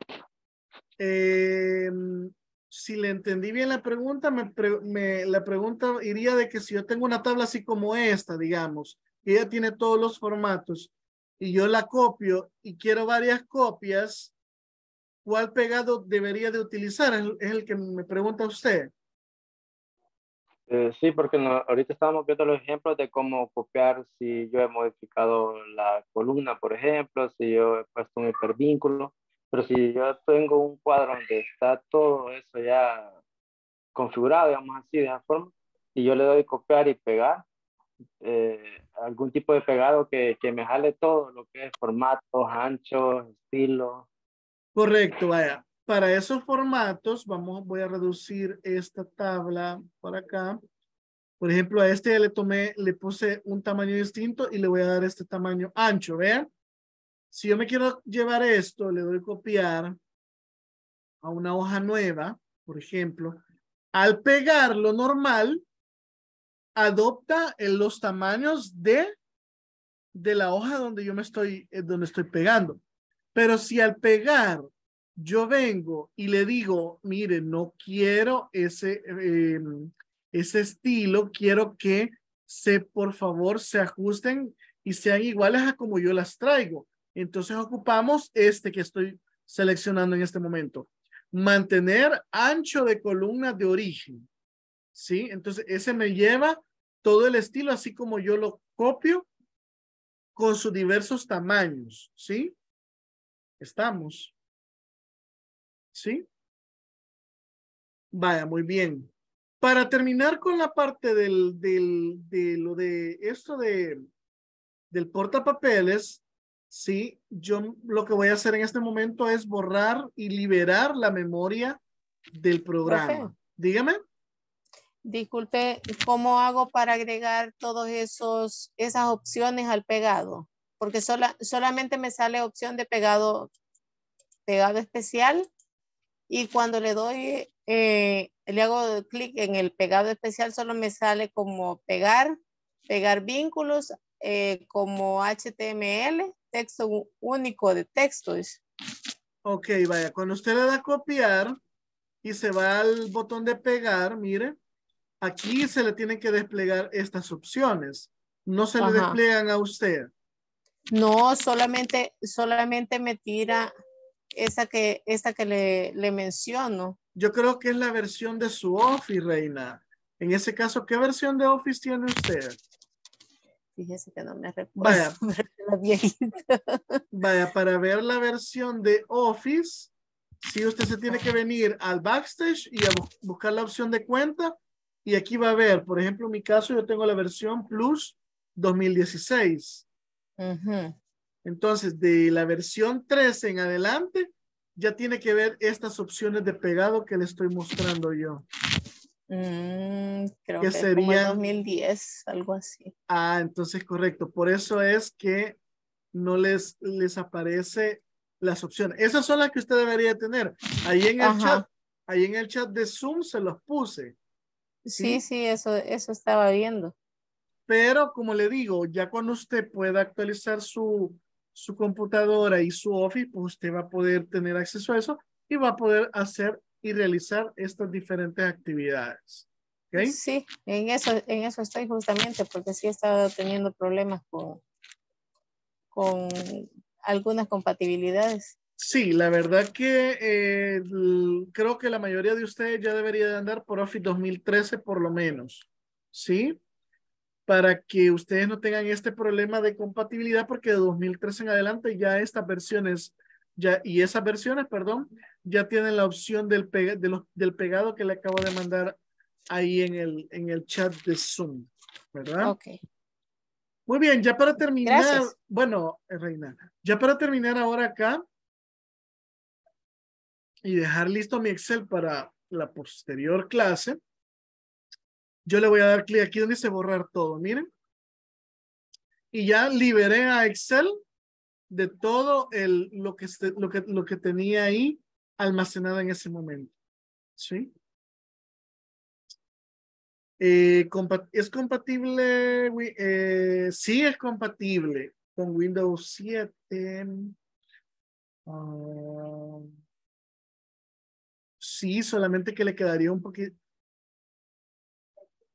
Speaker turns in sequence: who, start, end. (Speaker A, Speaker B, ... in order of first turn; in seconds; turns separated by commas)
Speaker A: 1.0-14.3, Speaker A: 15.2-18.9, Speaker B: 20.7-33.1, Speaker B: 33.9-37.4, Speaker B: 38.2-44.1, Speaker A: 44.7-50.6, Speaker A: 51.4-56.5, Speaker A: 57.3-60.0, Speaker A: 61.2-63.4, Speaker A: 63.9-65.6, Speaker A: 66.8-69.1, Speaker A: 70.1-72.8, Speaker A: 73.3-94.3, Speaker A: 94.9-99.3, Speaker A: 100.3-102.5, Speaker A: 103.6-104.3, Speaker A: 105.9-106.2, Speaker A: 108.1-109.1, Speaker A: 109.6-114.0, Speaker A: 114.9-121.8, Speaker A: 122.3-124.0, Speaker C: 122.8-123.3, Speaker C: 125.0-133.5, Speaker C: 134.4-135.5, Speaker C: 136.3-148.6, Speaker A: 149.4-151.6, Speaker A: 152.2-154.6, Speaker A: 155.2-160.1, Speaker C: 158.8-159.2, Speaker C: 160.9-163.7, Speaker C: 164.3-167.0, Speaker A: 167.2-172.6, Speaker C: 173.8-177.0, Speaker A: 174.8-175.2, Speaker A: 177.1-179.9, Speaker A: 180.4-189.8, Speaker C: 190.4-190.9, Speaker A: 191.4-198.4, Speaker C: 199.3-202.9, Speaker A: 200.6-201.4, Speaker A: 203.1-205.6, Speaker A: 206.1-214.2, Speaker C: 211.2-211.7, Speaker C: 214.8-216.9, Speaker A: 214.9-215.2, Speaker A: 217.7-230.2, Speaker C: 230.0-234.6, Speaker C: 235.9-238.5, Speaker A: 238.8-246.6, Speaker A: 247.5-259.0, Speaker A: 259.5-262.5, Speaker C: 262.4-262.8, Speaker A: 263.9-268.2, Speaker C: 264.8-265.3, Speaker A: 270.6-274.0, Speaker A: 275.5-277.7, Speaker A: 279.3-281.0, Speaker A: 281.7-286.7, Speaker A: 287.4-287.7, Speaker A: 290.4-297.3, Speaker A: 298.5-299.7, Speaker A: 301.6-303.5